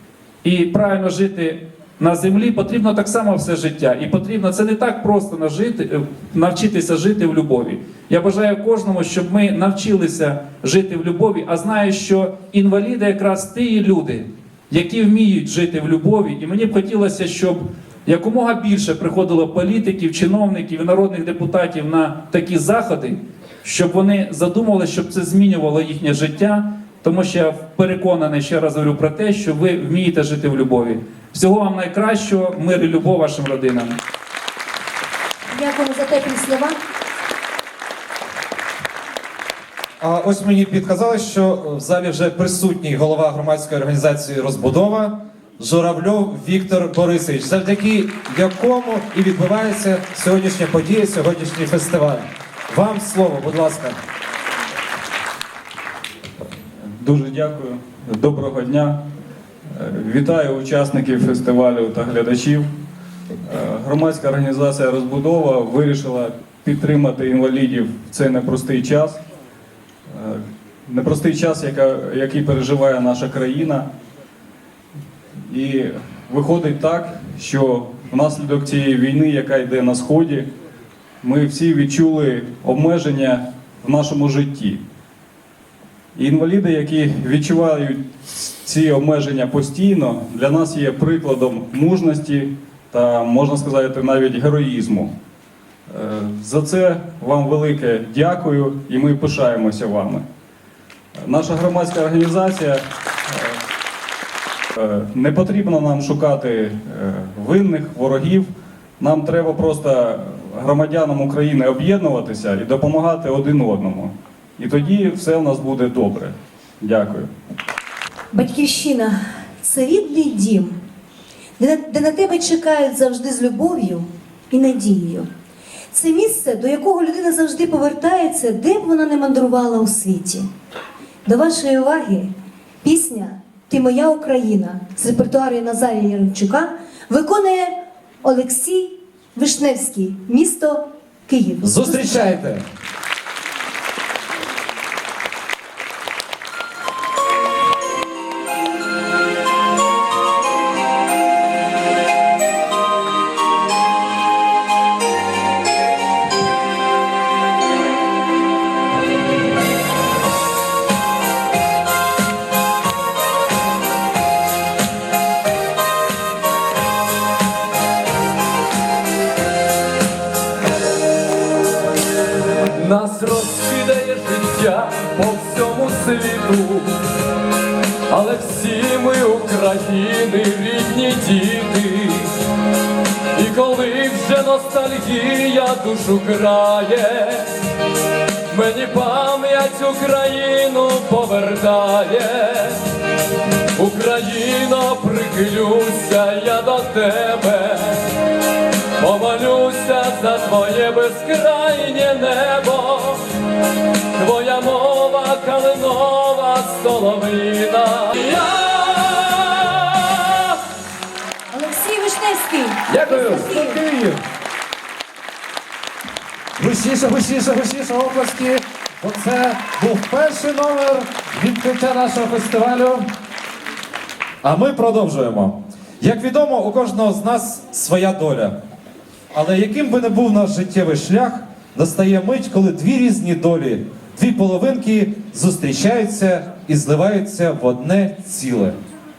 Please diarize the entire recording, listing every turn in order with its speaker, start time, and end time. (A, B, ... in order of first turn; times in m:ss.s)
0:00.4-0:34.0 A
0:35.5-0:36.8 B
0:40.0-0:54.0 C
0:57.0-0:59.0 D
0:59.7-1:02.6 D
1:03.5-1:09.2 D
1:10.1-1:13.8 D
1:15.5-1:20.4 D
1:21.2-1:24.8 D
1:26.2-1:35.1 D
1:35.9-1:40.2 D
1:41.2-1:43.6 D
1:44.8-1:48.5 D
1:49.0-1:57.3 D
1:58.3-2:00.7 B
2:01.6-2:05.3 B
2:05.9-2:10.4 B
2:11.3-2:12.0 C
2:11.3-2:12.3 B
2:12.8-2:16.7 B
2:16.2-2:16.6 C
2:17.1-2:17.6 C
2:17.2-2:17.6 B
2:18.4-2:20.8 B
2:21.3-2:22.0 B
2:21.6-2:22.6 C
2:52.7-2:57.0 E
2:58.1-3:02.3 E
3:03.3-3:07.5 E
3:08.5-3:12.8 E
3:13.8-3:18.1 E
3:19.0-3:23.2 E
3:24.2-3:30.6 E
3:31.5-3:33.8 B
3:32.9-3:34.2 C
3:36.6-3:43.1 C
3:44.4-3:48.6 C
3:49.3-3:58.8 C